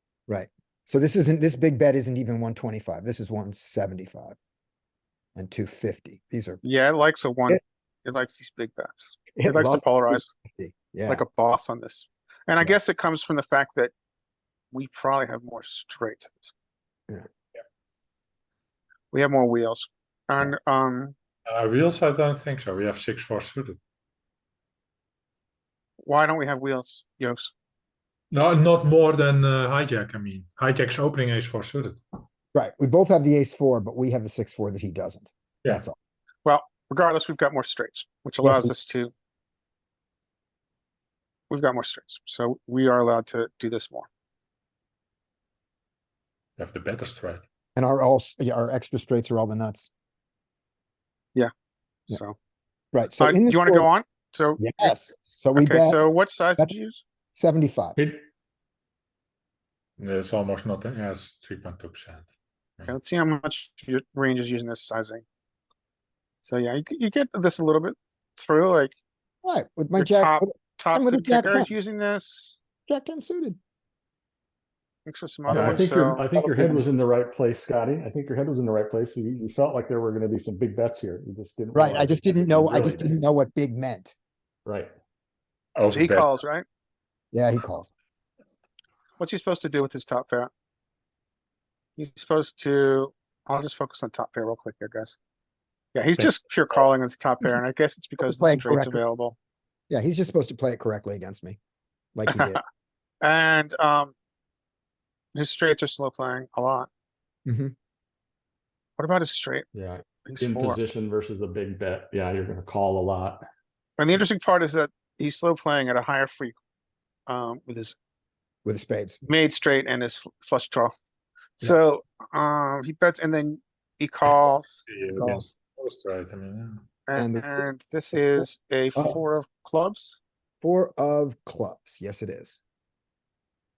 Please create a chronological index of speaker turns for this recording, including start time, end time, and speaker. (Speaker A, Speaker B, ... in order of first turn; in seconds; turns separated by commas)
Speaker A: 0.3-4.4, Speaker A: 5.4-6.6, Speaker B: 6.6-10.3, Speaker A: 9.4-11.2, Speaker B: 11.1-13.9, Speaker B: 14.7-16.5, Speaker B: 19.1-21.1, Speaker C: 21.5-23.8, Speaker B: 26.0-27.5, Speaker C: 28.3-32.0, Speaker A: 32.5-35.9, Speaker B: 36.4-39.1, Speaker A: 38.4-38.7, Speaker B: 41.5-44.1, Speaker C: 46.6-47.4, Speaker A: 47.8-49.9, Speaker B: 52.1-52.4, Speaker A: 52.9-53.9, Speaker B: 53.2-55.0, Speaker A: 54.6-56.0, Speaker B: 55.5-57.0, Speaker A: 57.3-58.0, Speaker D: 58.0-58.2, Speaker C: 60.0-62.2, Speaker B: 62.9-65.2, Speaker B: 66.4-68.9, Speaker A: 69.4-71.7, Speaker B: 70.0-72.6, Speaker A: 72.9-73.6, Speaker B: 75.1-76.3, Speaker D: 75.5-83.2, Speaker A: 76.5-76.9, Speaker A: 81.7-84.2, Speaker D: 84.7-84.9, Speaker C: 85.8-86.3, Speaker B: 85.9-86.7, Speaker A: 87.3-87.9, Speaker B: 89.2-90.5, Speaker B: 92.0-95.2, Speaker B: 95.9-99.3, Speaker A: 98.2-99.0, Speaker A: 99.9-101.6, Speaker A: 102.2-102.6, Speaker B: 102.3-102.6, Speaker B: 103.2-104.1, Speaker B: 105.3-106.9, Speaker A: 107.5-107.7, Speaker B: 109.0-109.7, Speaker D: 109.7-113.5, Speaker B: 110.2-110.8, Speaker B: 114.0-116.5, Speaker B: 117.3-118.0, Speaker A: 118.7-119.2, Speaker B: 119.2-120.9, Speaker B: 121.6-124.8, Speaker C: 124.3-126.8, Speaker A: 125.2-125.5, Speaker B: 127.1-130.2, Speaker A: 127.2-127.7, Speaker A: 129.0-129.2, Speaker A: 130.6-132.6